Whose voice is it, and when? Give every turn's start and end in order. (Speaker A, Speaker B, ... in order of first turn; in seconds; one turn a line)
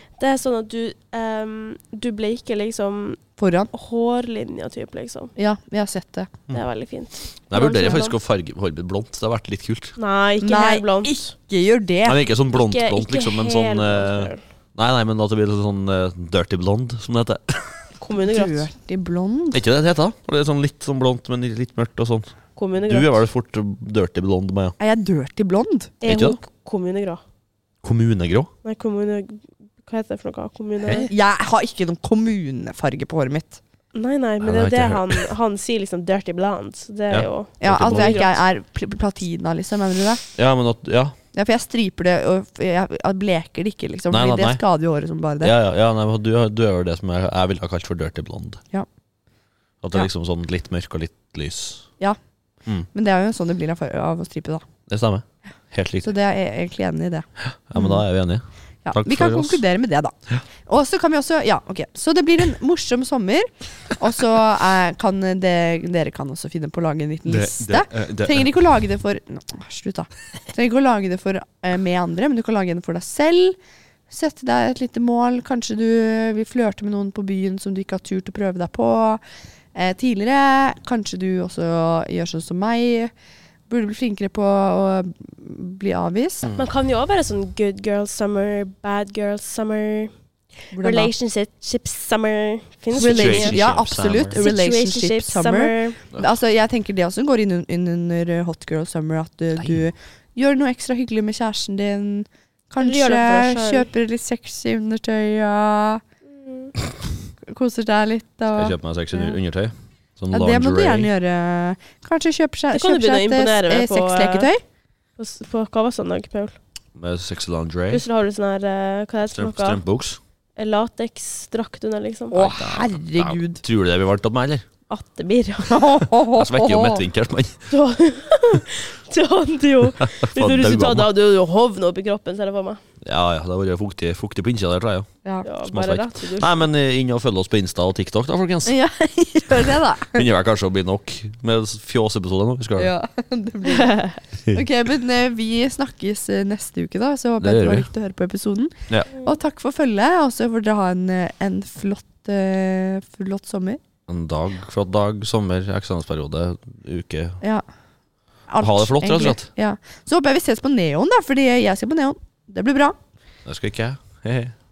Speaker A: 0.2-3.2
Speaker B: 3.4-3.7
Speaker A: 3.7-5.3
Speaker B: 5.4-6.3
Speaker A: 6.5-8.2
Speaker C: 7.5-9.9
Speaker A: 10.0-11.3
Speaker B: 10.4-12.2
Speaker C: 12.1-17.9
Speaker A: 12.5-14.4
Speaker A: 18.0-18.7
Speaker B: 18.2-19.6
Speaker C: 19.5-24.8
Speaker A: 22.6-23.2
Speaker B: 24.8-25.9
Speaker A: 26.0-27.2
Speaker C: 26.1-26.4
Speaker C: 27.8-28.5
Speaker A: 28.6-31.1
Speaker C: 30.8-31.1
Speaker B: 31.1-33.6
Speaker A: 33.9-38.3
Speaker C: 34.4-35.3
Speaker C: 37.1-38.2
Speaker B: 37.6-40.2
Speaker C: 40.4-41.1
Speaker B: 41.3-45.5
Speaker C: 44.1-44.6
Speaker C: 45.4-48.6
Speaker C: 49.8-51.9
Speaker B: 52.9-54.6
Speaker C: 54.9-56.1
Speaker B: 56.0-58.0
Speaker C: 57.4-59.6
Speaker B: 58.9-60.1
Speaker B: 60.7-73.6
Speaker C: 67.3-68.5
Speaker B: 74.1-79.2
Speaker B: 79.8-83.1
Speaker B: 83.7-86.5
Speaker C: 86.4-86.7
Speaker A: 86.6-90.1
Speaker B: 90.7-91.1
Speaker A: 90.8-93.6
Speaker B: 92.9-106.0
Speaker C: 92.9-94.4
Speaker A: 94.3-96.0
Speaker A: 102.8-103.9
Speaker A: 106.4-106.7
Speaker B: 107.5-109.4
Speaker C: 108.5-111.1
Speaker B: 110.3-114.6
Speaker A: 112.7-114.5
Speaker A: 115.2-116.6
Speaker C: 117.0-118.0
Speaker A: 117.9-119.8
Speaker C: 119.3-120.2
Speaker A: 120.6-122.5
Speaker B: 122.3-123.6
Speaker C: 122.4-124.7
Speaker A: 124.9-125.9
Speaker B: 125.7-127.0
Speaker C: 126.3-127.7
Speaker A: 127.7-132.8
Speaker C: 130.0-131.1
Speaker C: 133.0-135.1
Speaker A: 135.4-136.7
Speaker C: 135.6-138.7
Speaker B: 138.7-140.2
Speaker C: 140.0-142.9
Speaker B: 142.8-153.8
Speaker A: 143.7-144.2
Speaker C: 147.4-147.9
Speaker C: 154.1-157.4
Speaker B: 158.5-163.0
Speaker C: 158.6-159.5
Speaker C: 163.4-164.6